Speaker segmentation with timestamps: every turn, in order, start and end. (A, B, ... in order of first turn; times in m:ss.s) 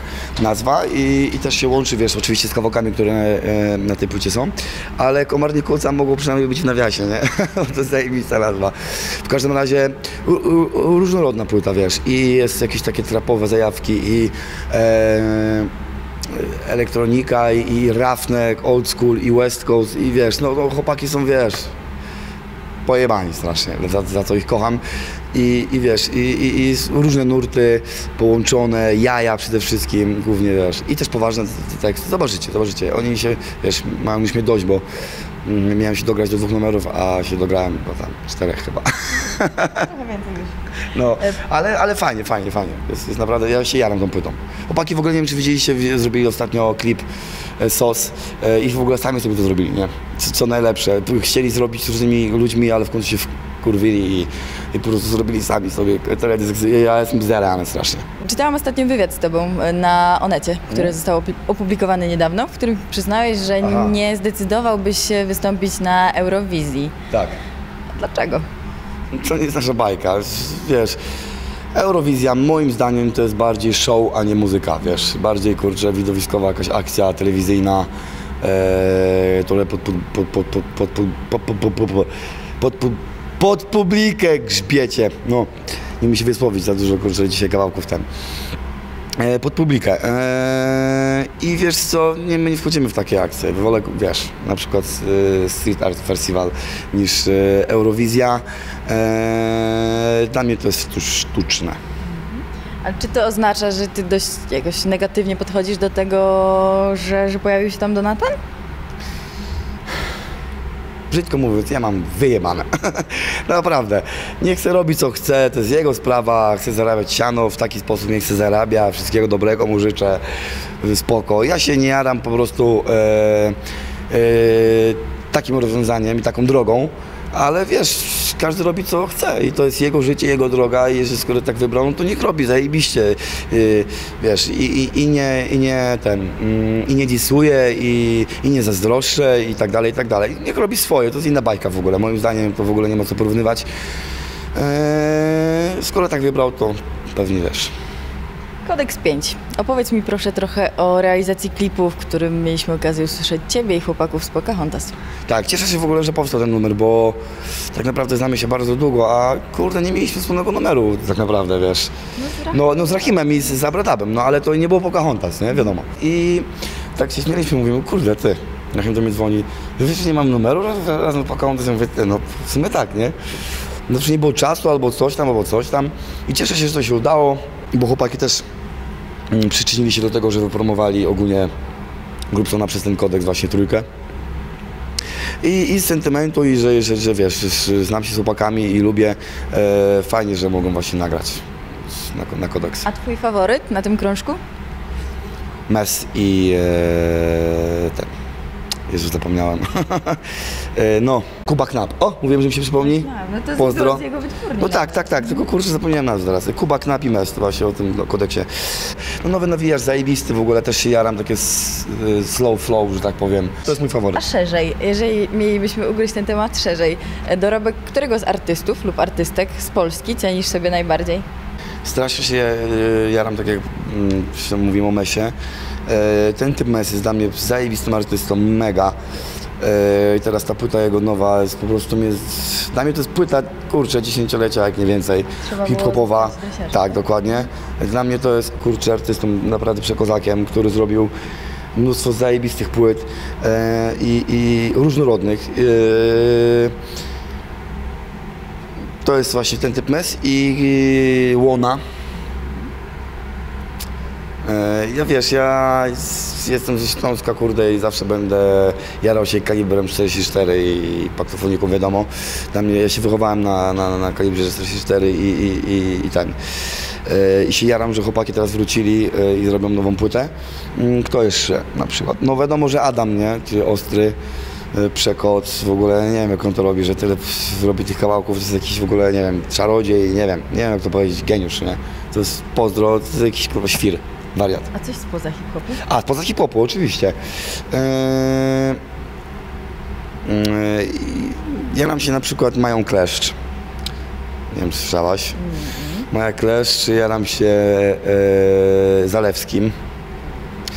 0:00.4-0:15.7 A
0:16.3-0:21.7 A
0:22.9-0:24.8 A
0:25.3-0:34.8 A
0:35.4-0:39.9 A
0:39.8-0:40.6 B
0:40.9-0:47.1 A
0:47.6-0:58.1 A
0:58.2-1:06.9 B
1:03.6-1:04.0 A
1:07.1-1:07.4 A
1:08.0-1:08.4 B
1:09.1-1:11.0 A
1:11.8-1:17.9 A
1:18.4-1:28.0 A
1:29.2-1:41.8 A
1:42.1-1:48.4 B
1:51.1-2:00.2 A
2:00.8-2:03.6 A
2:04.1-2:23.7 A
2:24.5-2:27.7 A
2:28.6-2:35.0 B
2:35.3-2:37.2 A
2:37.7-2:41.9 A
2:42.2-2:43.2 B
2:42.5-2:53.2 A
2:53.9-2:58.5 A
2:59.3-3:01.5 A
3:02.3-3:03.9 A
3:05.4-3:12.9 A
3:12.8-3:14.4 B
3:15.7-3:18.1 A
3:18.9-3:20.2 A
3:20.8-3:24.0 A
3:22.8-3:25.4 B
3:24.6-3:34.2 A
3:34.1-3:41.2 B
3:41.8-3:45.3 A
3:45.9-3:48.9 A
3:49.6-4:01.1 A
3:55.4-3:57.0 B
4:01.8-4:06.8 A
4:09.0-4:11.8 A
4:14.4-4:26.4 A
4:27.0-4:34.2 A
4:34.7-4:44.7 A
4:44.7-4:45.8 B
4:45.8-4:47.2 A
4:47.7-4:48.8 A
4:50.2-4:53.4 A
4:54.5-4:55.4 A
4:55.4-4:56.1 B
4:56.1-4:59.8 A